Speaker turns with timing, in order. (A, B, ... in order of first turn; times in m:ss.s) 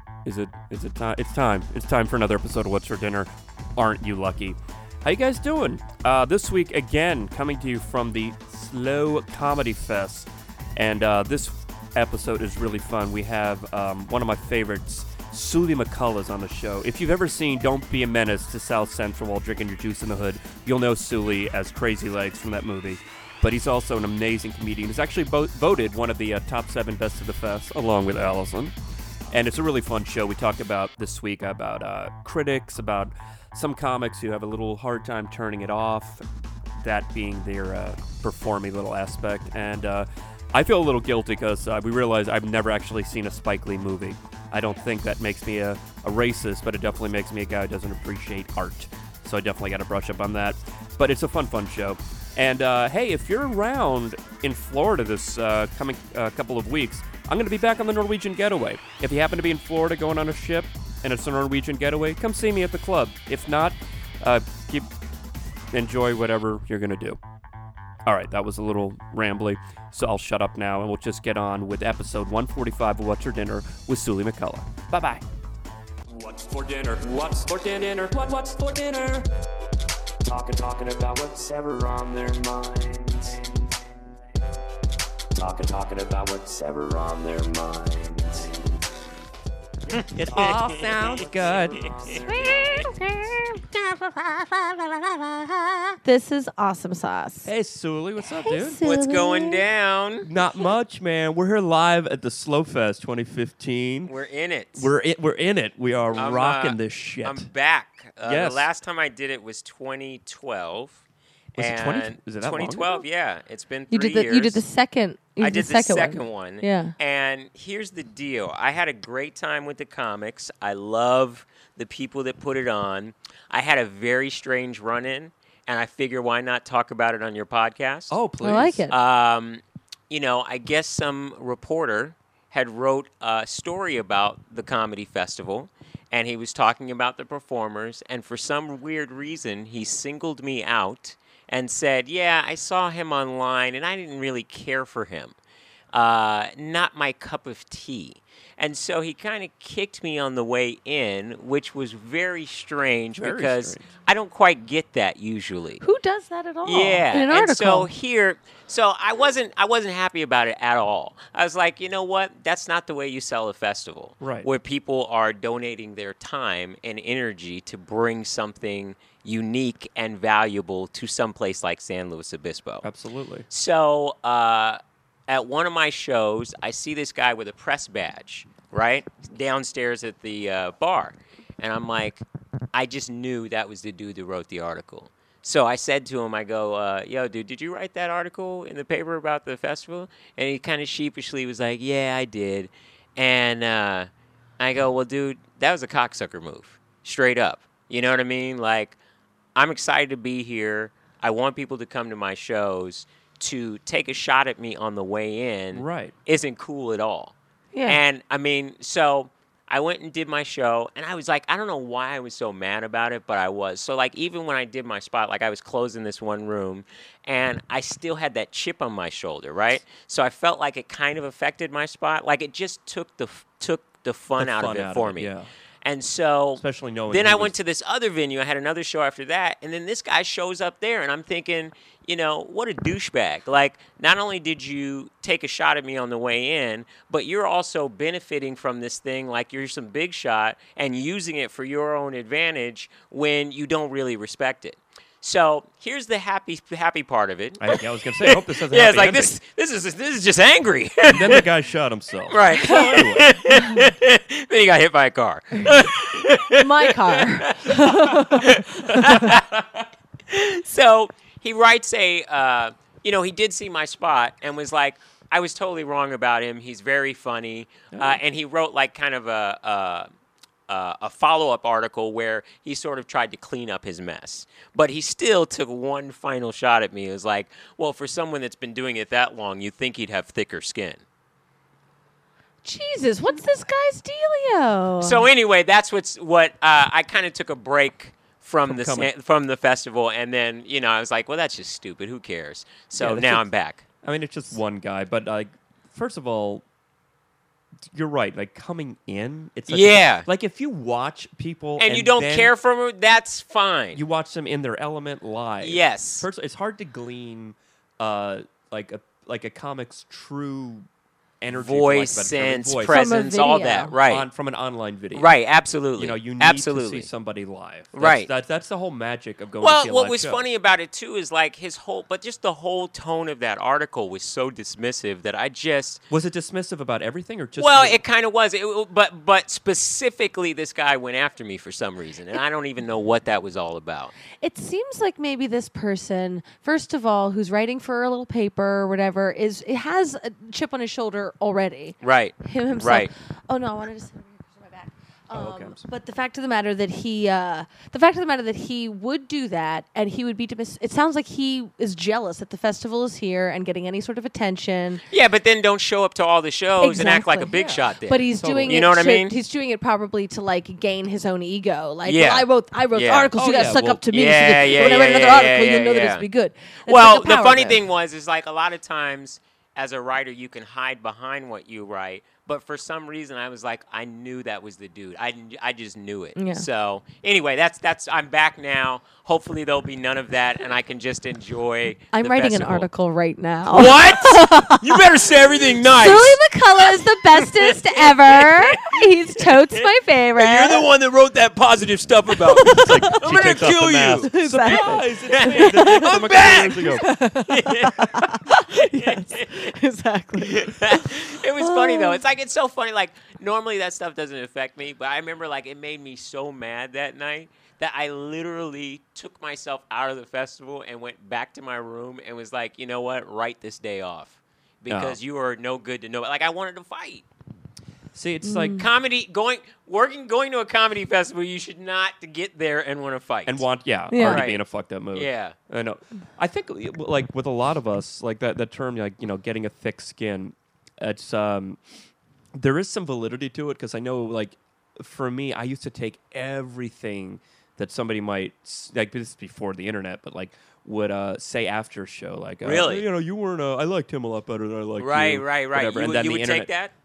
0:00.2-0:28.7 A
0:29.3-0:36.2 A
0:36.8-1:04.9 A
1:05.7-1:07.2 A
1:08.0-1:15.2 A
1:16.1-1:19.2 A
1:17.0-1:17.4 B
1:20.2-1:23.8 B
1:25.4-1:28.8 B
1:29.9-1:30.6 C
1:30.1-1:32.1 A
1:30.2-1:33.1 B
1:31.8-1:32.2 C
1:32.2-1:33.0 D
1:33.8-1:36.0 B
1:36.0-1:37.5 D
1:37.4-1:38.8 A
1:38.2-1:39.6 D
1:38.8-1:40.3 C
1:40.2-1:44.1 A
1:44.0-1:44.9 C
1:44.8-1:47.5 A
1:46.1-1:51.0 C
1:48.2-1:48.7 A
1:51.5-1:53.0 A
1:51.6-1:54.6 C
1:53.9-1:56.9 D
1:55.4-2:08.2 C
2:08.1-2:08.9 A
2:08.4-2:08.9 D
2:08.9-2:25.3 C
2:25.9-2:35.8 C
2:33.2-2:33.9 A
2:35.8-2:37.9 D
2:36.6-2:52.8 C
2:44.2-2:44.5 A
2:52.8-2:53.5 A
2:53.5-3:19.0 C
3:19.5-4:11.4 C
3:25.7-3:26.1 A
3:27.7-3:28.0 D
3:44.4-3:45.5 A
3:46.6-3:47.5 A
4:07.6-4:09.4 A
4:11.1-4:13.3 A
4:12.3-4:19.4 C
4:16.5-4:19.1 D
4:18.9-4:19.6 A
4:20.3-4:30.1 C
4:27.9-4:28.2 A
4:30.7-4:41.0 C
4:42.6-4:45.2 D
4:45.0-4:53.8 C
4:48.6-4:49.1 A
4:52.9-4:53.5 A
4:54.0-4:56.6 A
4:57.9-5:02.5 A
4:59.7-5:00.3 C
5:01.8-5:04.0 C
5:03.9-5:10.9 A
5:05.6-5:06.3 C
5:11.4-5:13.3 A
5:11.5-5:14.2 C
5:12.8-5:13.9 D
5:14.0-5:15.3 A
5:15.1-5:17.1 C
5:16.0-5:20.4 A
5:17.9-5:18.3 C
5:19.6-5:26.0 C
5:26.1-5:28.0 A
5:27.6-5:34.1 C
5:34.4-5:55.0 D
5:42.0-5:43.1 C
5:45.3-5:45.8 A
5:55.1-5:59.3 C
5:56.8-6:07.8 D
5:57.5-5:58.8 A
6:02.0-6:03.3 C
6:03.3-6:04.1 A
6:04.1-6:06.2 C
6:06.8-6:22.9 C
6:16.4-6:16.6 D
6:22.1-6:30.8 D
6:23.7-6:39.7 C
6:32.4-6:33.6 D
6:32.6-6:37.1 A
6:34.2-6:42.2 D
6:40.4-6:57.2 C
6:54.9-6:55.2 A
6:58.1-6:58.8 A
6:58.4-6:58.8 D
6:58.8-7:04.6 C
7:03.5-7:11.8 A
7:04.1-7:04.4 D
7:05.1-7:05.6 C
7:12.5-7:26.7 A
7:22.6-7:23.1 C
7:25.0-7:26.9 C